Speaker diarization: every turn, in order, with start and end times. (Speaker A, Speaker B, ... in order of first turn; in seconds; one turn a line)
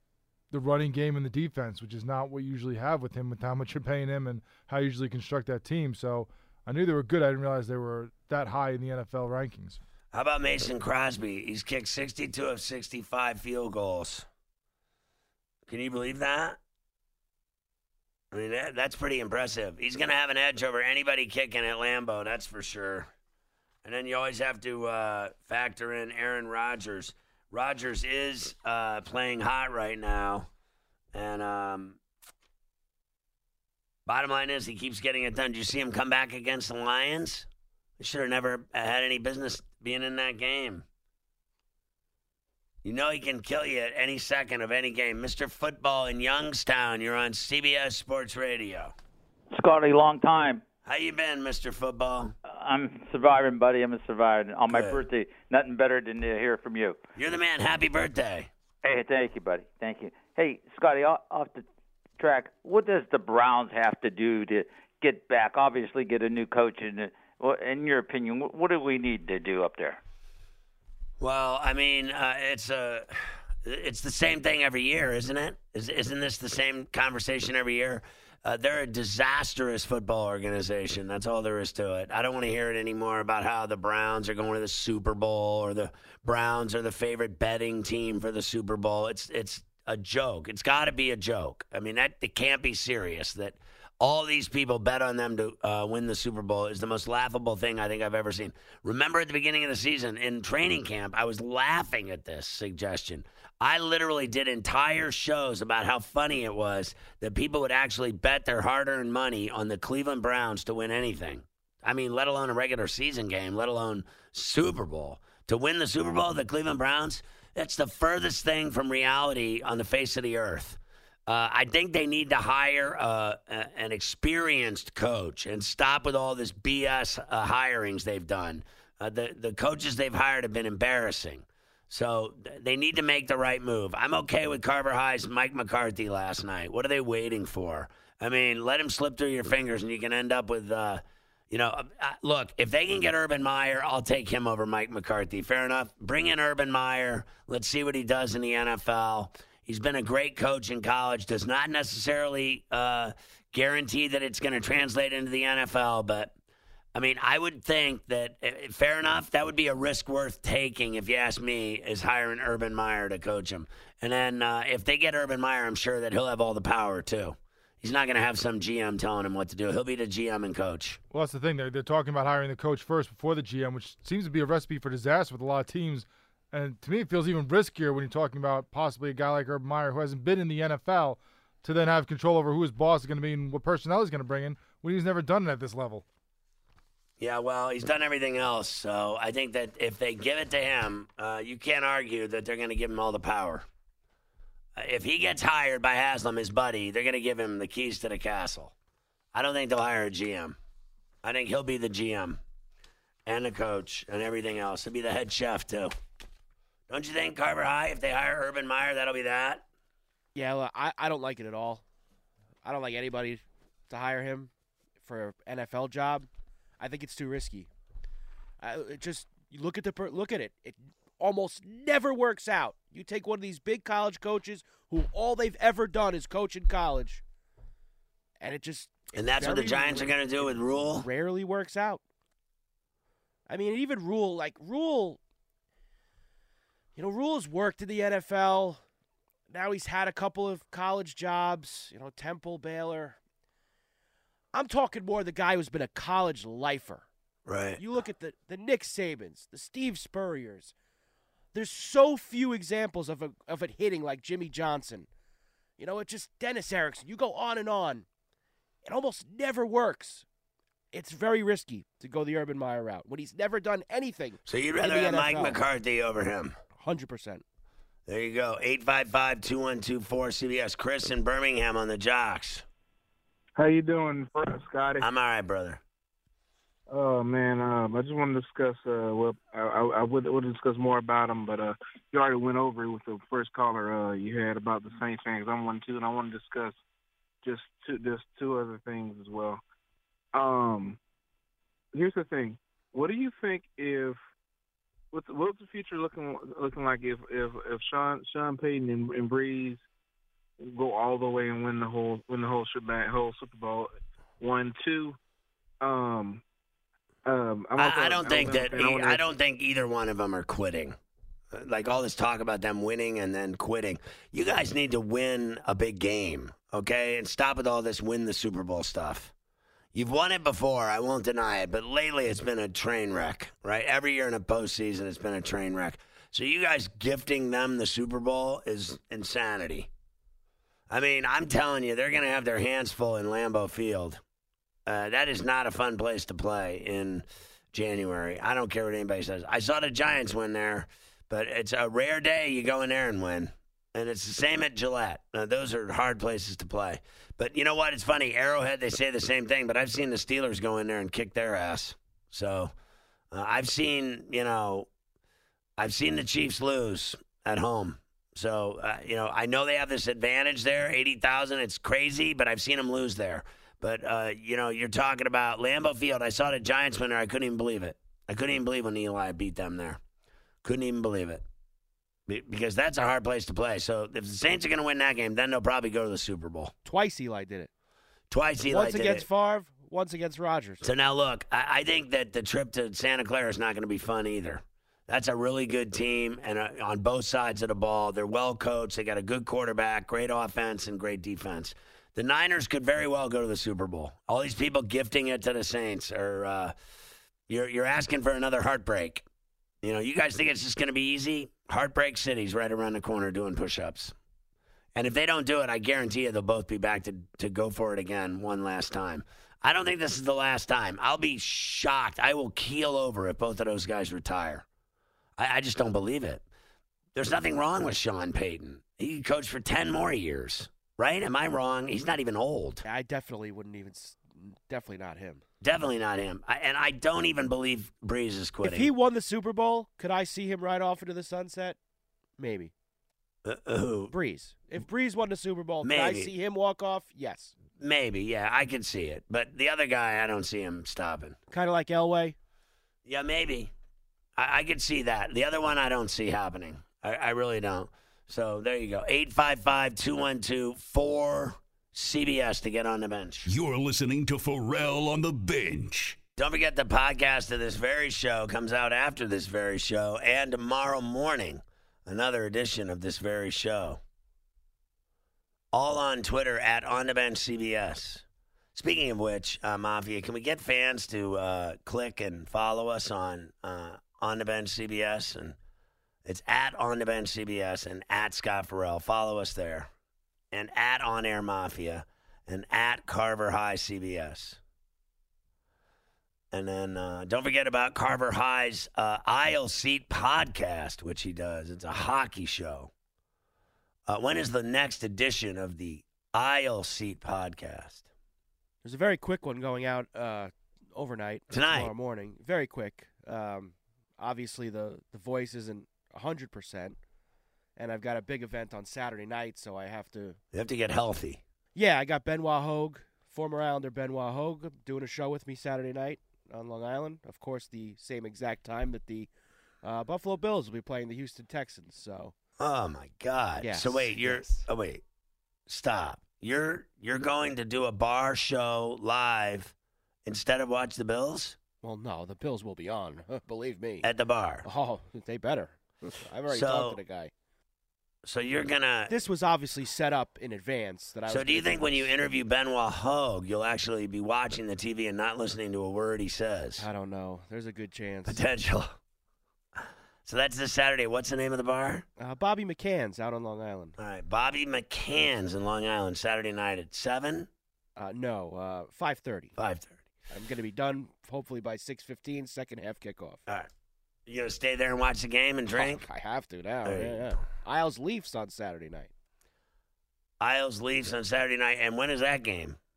Speaker A: 0.5-9.8
Speaker B: 10.1-14.3
Speaker B: 15.7-16.6
Speaker B: 18.3-23.1
Speaker B: 23.8-30.5
Speaker B: 31.1-32.0
Speaker B: 34.0-37.5
Speaker B: 38.0-40.8
Speaker B: 42.8-48.9
Speaker C: 49.5-50.6
Speaker B: 50.8-52.3
Speaker C: 52.5-57.0
Speaker B: 54.7-55.0
Speaker B: 57.1-58.5
Speaker C: 58.8-61.6
Speaker C: 62.2-70.0
Speaker B: 71.2-73.1
Speaker B: 73.6-156.3
Speaker B: 156.9-171.0
Speaker A: 171.1-186.0
Speaker B: 187.2-193.7
Speaker B: 194.8-198.7
Speaker B: 199.3-200.6
Speaker B: 201.2-202.4
Speaker B: 203.2-205.9
Speaker B: 206.9-209.6
Speaker D: 210.3-211.8
Speaker D: 212.6-216.3
Speaker D: 216.8-217.7
Speaker D: 218.6-227.2
Speaker D: 228.4-232.0
Speaker B: 229.1-231.1
Speaker D: 233.5-235.2
Speaker D: 236.9-238.8
Speaker D: 239.5-243.2
Speaker D: 244.5-247.0
Speaker B: 247.4-247.8
Speaker D: 247.8-250.7
Speaker D: 251.5-255.1
Speaker D: 255.8-258.1
Speaker D: 258.8-260.2
Speaker D: 260.9-265.6
Speaker B: 264.4-266.6
Speaker D: 266.8-267.4
Speaker B: 268.1-272.6
Speaker E: 273.6-275.0
Speaker B: 275.0-275.8
Speaker E: 276.9-286.8
Speaker E: 287.4-289.6
Speaker E: 290.3-291.0
Speaker E: 291.9-294.2
Speaker E: 295.1-299.8
Speaker E: 300.6-305.2
Speaker E: 305.8-306.4
Speaker E: 307.2-309.2
Speaker B: 307.8-310.9
Speaker B: 311.5-319.3
Speaker B: 319.9-329.9
Speaker B: 330.9-334.2
Speaker B: 334.9-352.7
Speaker B: 353.3-354.9
Speaker B: 355.8-370.0
Speaker B: 370.6-371.4
Speaker B: 372.3-376.7
Speaker D: 376.8-377.7
Speaker B: 378.3-379.2
Speaker D: 378.6-380.8
Speaker B: 380.8-396.7
Speaker B: 397.5-399.2
Speaker B: 399.8-404.1
Speaker B: 404.9-414.6
Speaker B: 415.4-416.4
Speaker B: 417.1-422.8
Speaker D: 422.8-425.4
Speaker B: 425.6-428.9
Speaker D: 428.6-431.8
Speaker D: 432.4-432.7
Speaker B: 433.4-434.1
Speaker D: 434.1-437.5
Speaker B: 435.8-436.3
Speaker B: 437.8-441.4
Speaker D: 441.5-442.4
Speaker B: 443.1-443.7
Speaker B: 444.4-453.5
Speaker F: 453.4-456.2
Speaker B: 456.4-464.0
Speaker B: 465.7-475.6
Speaker B: 476.2-479.9
Speaker B: 480.5-484.6
Speaker B: 486.5-492.9
Speaker B: 494.1-498.0
Speaker D: 498.8-507.0
Speaker B: 501.5-501.9
Speaker D: 507.8-510.4
Speaker B: 510.5-511.4
Speaker D: 511.7-519.3
Speaker D: 519.8-522.3
Speaker B: 522.6-525.0
Speaker D: 523.6-524.7
Speaker B: 525.7-529.7
Speaker B: 530.2-531.6
Speaker D: 531.8-534.1
Speaker B: 534.0-534.6
Speaker D: 534.6-537.3
Speaker B: 536.5-537.0
Speaker B: 538.2-539.1
Speaker D: 539.1-542.1
Speaker B: 541.3-546.9
Speaker D: 546.8-548.4
Speaker B: 548.2-549.0
Speaker B: 550.2-552.0
Speaker D: 552.2-554.0
Speaker B: 554.0-557.5
Speaker D: 558.0-559.5
Speaker B: 559.5-560.0
Speaker D: 560.3-563.4
Speaker B: 564.2-566.0
Speaker D: 565.7-569.1
Speaker B: 566.8-567.4
Speaker B: 570.4-572.8